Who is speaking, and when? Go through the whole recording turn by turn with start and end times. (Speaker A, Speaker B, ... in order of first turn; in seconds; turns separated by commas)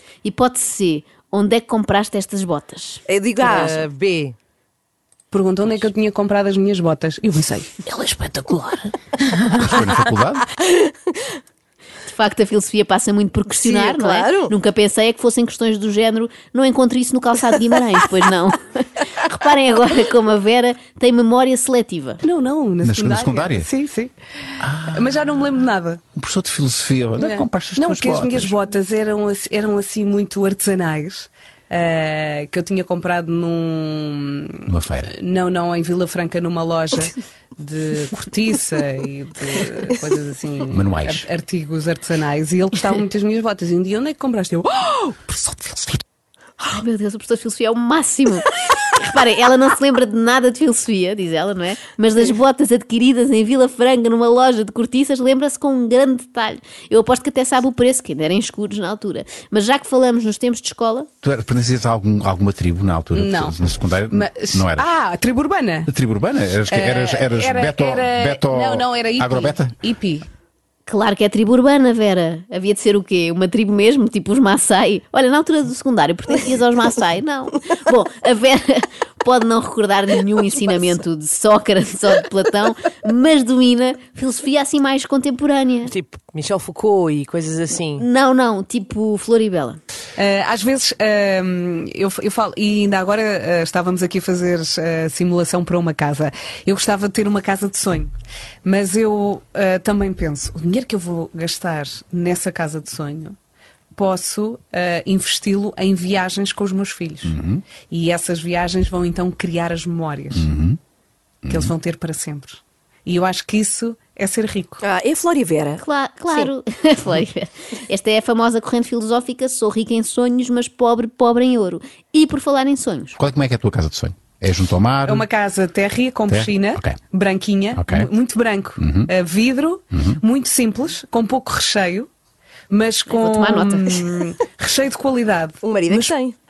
Speaker A: 0.2-3.8, Speaker B: 3.1-4.3, Speaker C: 3.4-3.9, Speaker D: 5.3-8.9, Speaker E: 9.6-10.5, Speaker A: 12.1-22.2, Speaker B: 13.6-14.5, Speaker D: 22.2-24.1, Speaker E: 22.8-23.7, Speaker E: 24.6-25.5, Speaker D: 24.9-26.0, Speaker E: 26.1-28.6, Speaker D: 27.2-46.0, Speaker E: 34.7-35.1, Speaker E: 40.7-41.3, Speaker A: 46.6-61.1, Speaker E: 61.2-64.9, Speaker D: 63.1-63.5, Speaker D: 64.1-65.9, Speaker E: 65.9-69.8, Speaker D: 66.7-70.3, Speaker A: 70.9-85.9, Speaker C: 85.9-88.0, Speaker A: 88.0-89.8, Speaker D: 90.2-98.1, Speaker D: 98.6-103.4, Speaker D: 104.0-107.3, Speaker E: 107.2-107.6, Speaker D: 107.9-110.5, Speaker E: 110.3-110.8, Speaker E: 111.5-111.7, Speaker D: 111.5-114.8, Speaker B: 114.8-116.5, Speaker A: 115.8-123.2, Speaker E: 123.2-125.3, Speaker D: 125.1-132.1, Speaker E: 126.3-127.0, Speaker E: 127.8-128.1, Speaker E: 128.8-129.1, Speaker E: 129.9-130.2, Speaker D: 132.7-136.2, Speaker A: 133.1-134.1, Speaker B: 135.6-136.3